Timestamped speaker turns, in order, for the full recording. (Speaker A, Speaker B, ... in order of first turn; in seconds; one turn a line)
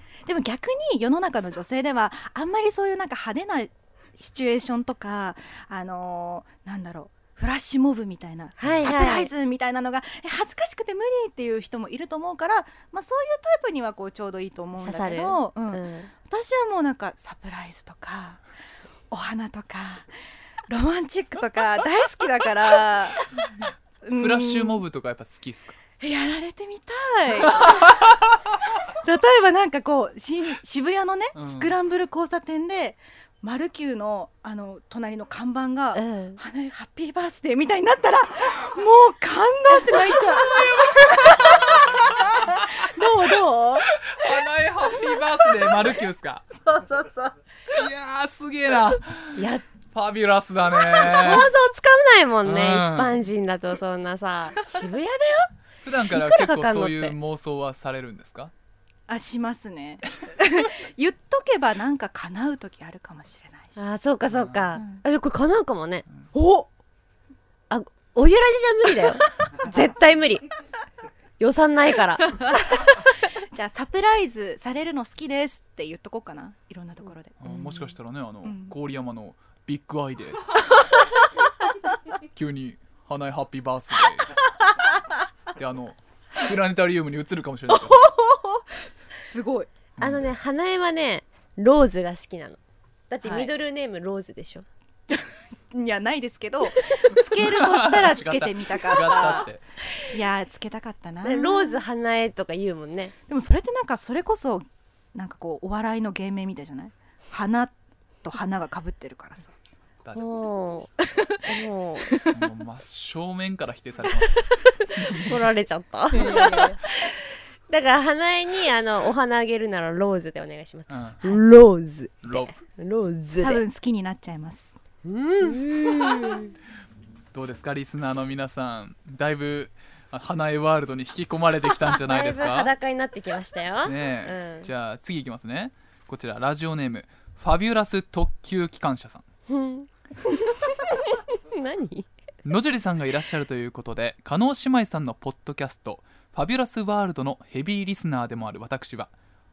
Speaker A: 0.2-18.4
Speaker B: 8.6-9.3
Speaker B: 14.8-16.1
Speaker A: 19.1-20.2
Speaker A: 20.7-23.4
Speaker A: 24.0-24.8
Speaker C: 24.1-25.8
Speaker A: 26.0-28.3
Speaker A: 28.9-44.0
Speaker C: 31.4-31.8
Speaker B: 35.9-36.4
Speaker C: 43.9-46.5
Speaker A: 45.3-45.8
Speaker A: 46.5-47.4
Speaker C: 47.7-51.5
Speaker B: 49.4-49.6
Speaker B: 50.9-55.5
Speaker C: 52.4-53.2
Speaker C: 55.8-58.5
Speaker B: 56.1-57.2
Speaker A: 59.1-63.9
Speaker B: 63.8-66.1
Speaker C: 64.3-64.7
Speaker A: 64.8-65.0
Speaker A: 66.3-66.7
Speaker B: 67.7-70.5
Speaker B: 71.4-73.1
Speaker A: 72.5-77.9
Speaker C: 77.4-80.6
Speaker A: 78.4-78.7
Speaker C: 82.3-84.4
Speaker C: 85.5-88.1
Speaker A: 87.7-89.7
Speaker C: 90.0-90.3
Speaker B: 90.0-94.7
Speaker A: 93.2-93.5
Speaker A: 95.1-99.5
Speaker B: 96.8-97.2
Speaker C: 97.3-99.6
Speaker A: 100.0-101.8
Speaker B: 101.2-103.1
Speaker A: 103.3-109.5
Speaker C: 110.0-110.3
Speaker B: 110.1-110.9
Speaker A: 111.0-111.4
Speaker B: 111.4-112.1
Speaker A: 112.1-112.4
Speaker C: 112.3-115.5
Speaker B: 114.3-123.6
Speaker A: 116.1-116.8
Speaker C: 120.9-121.3
Speaker C: 122.2-122.6
Speaker A: 123.4-124.8
Speaker C: 125.0-126.2
Speaker B: 125.4-126.5
Speaker C: 127.3-132.7
Speaker B: 131.9-134.7
Speaker C: 133.8-139.2
Speaker B: 139.5-142.1
Speaker C: 142.4-149.1